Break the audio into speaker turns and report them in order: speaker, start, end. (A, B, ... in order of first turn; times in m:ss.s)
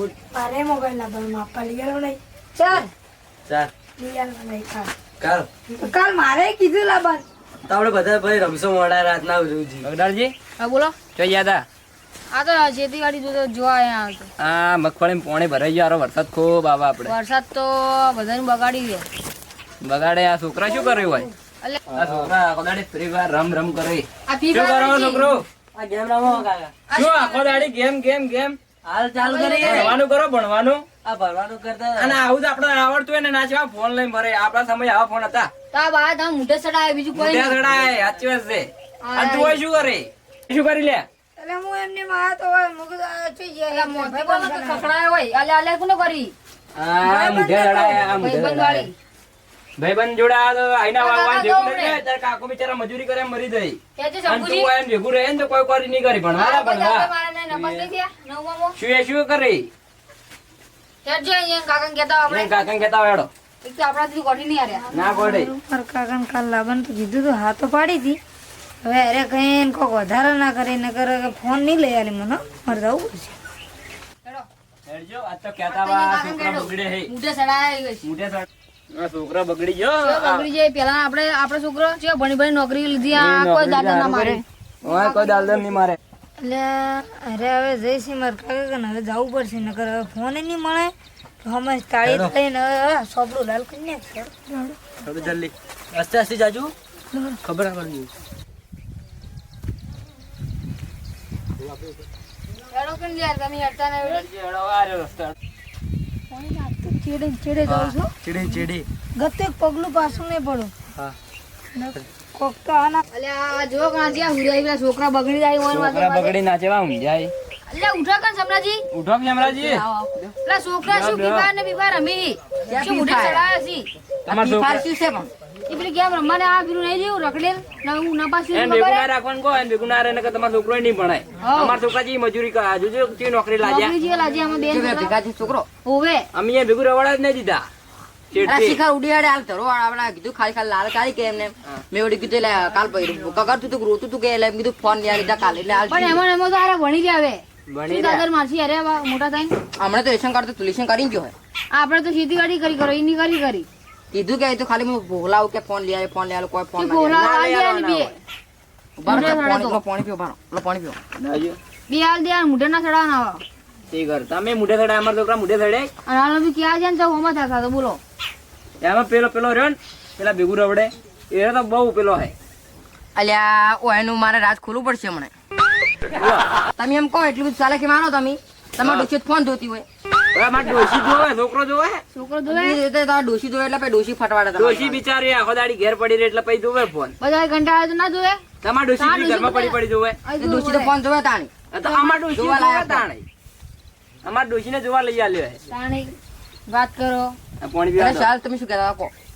0:00.3-0:02.9 A
0:04.0-0:04.9 A
0:05.2-0:05.5 B
0:05.7-0:07.2 A
0:07.7-0:09.9 B
0:09.8-0:10.4 C
0:10.6-0:11.0 D
0:11.2-0:11.6 C
0:12.3-0:14.3 D
0:14.4-0:17.1 C
0:17.0-0:19.1 D
0:19.8-0:21.3 C
0:20.7-0:21.8 D
0:22.0-0:25.4 C
0:22.0-0:22.3 B
0:24.3-0:25.3 D
0:25.8-0:26.7 B
0:26.9-0:27.7 D
0:26.9-0:28.6 C
0:28.8-0:29.9 B
0:29.2-0:30.0 D
0:29.6-0:30.9 C
0:31.0-0:32.2 B
0:32.0-0:35.5 C
0:35.7-0:37.7 D
0:37.1-0:41.1 C
0:39.0-0:39.6 D
0:41.4-0:44.9 A
0:43.7-0:46.4 D
0:46.8-0:48.9 C
0:47.0-0:48.9 D
0:49.8-0:57.9 C
0:51.0-0:52.0 D
0:54.0-0:54.7 D
0:56.4-0:58.8 D
0:58.8-0:59.7 C
1:01.0-1:02.6 D
1:02.3-1:03.3 C
1:03.6-1:04.9 D
1:04.9-1:08.2 A
1:04.9-1:05.5 C
1:08.8-1:13.4 A
1:14.9-1:17.1 C
1:15.7-1:18.1 D
1:18.0-1:20.5 C
1:20.0-1:25.7 D
1:23.1-1:26.0 C
1:26.4-1:34.5 A
1:32.0-1:32.3 B
1:34.6-1:36.7 B
1:37.1-1:37.4 A
1:37.4-1:38.1 B
1:42.7-1:44.3 D
1:44.0-1:45.3 C
1:46.3-1:48.1 A
1:47.7-1:48.9 B
1:49.2-1:50.7 A
1:51.7-1:53.0 A
1:53.1-1:56.4 D
1:55.7-1:57.3 C
1:57.7-1:58.8 D
1:58.9-1:59.8 C
1:59.4-2:00.4 E
2:00.5-2:03.9 D
2:00.8-2:01.5 C
2:02.7-2:03.4 E
2:04.3-2:05.3 E
2:04.3-2:04.8 C
2:05.7-2:09.1 D
2:08.5-2:14.0 C
2:11.4-2:11.8 D
2:13.6-2:15.2 D
2:14.7-2:15.7 E
2:15.8-2:16.3 D
2:16.3-2:17.6 C
2:18.3-2:18.8 C
2:18.4-2:26.2 E
2:25.9-2:29.6 D
2:27.7-2:28.3 C
2:29.8-2:31.3 E
2:31.7-2:33.7 D
2:34.1-2:37.2 E
2:36.8-2:38.2 D
2:37.2-2:38.2 C
2:39.0-2:41.0 E
2:39.1-2:39.8 D
2:39.1-2:39.4 C
2:41.2-2:41.6 C
2:41.9-2:43.4 D
2:43.9-2:45.9 C
2:46.1-2:48.0 D
2:48.8-2:52.3 C
2:53.2-2:55.3 E
2:56.2-2:56.4 C
2:56.8-2:59.9 E
2:58.8-2:59.1 C
3:00.3-3:02.0 C
3:02.1-3:02.8 D
3:02.5-3:05.0 E
3:04.6-3:07.2 C
3:07.2-3:08.4 D
3:08.6-3:10.2 C
3:09.0-3:10.9 D
3:10.4-3:11.5 E
3:11.7-3:13.2 C
3:11.9-3:12.1 D
3:12.3-3:13.1 E
3:14.2-3:15.6 C
3:15.7-3:17.4 D
3:17.6-3:18.3 C
3:18.0-3:19.1 E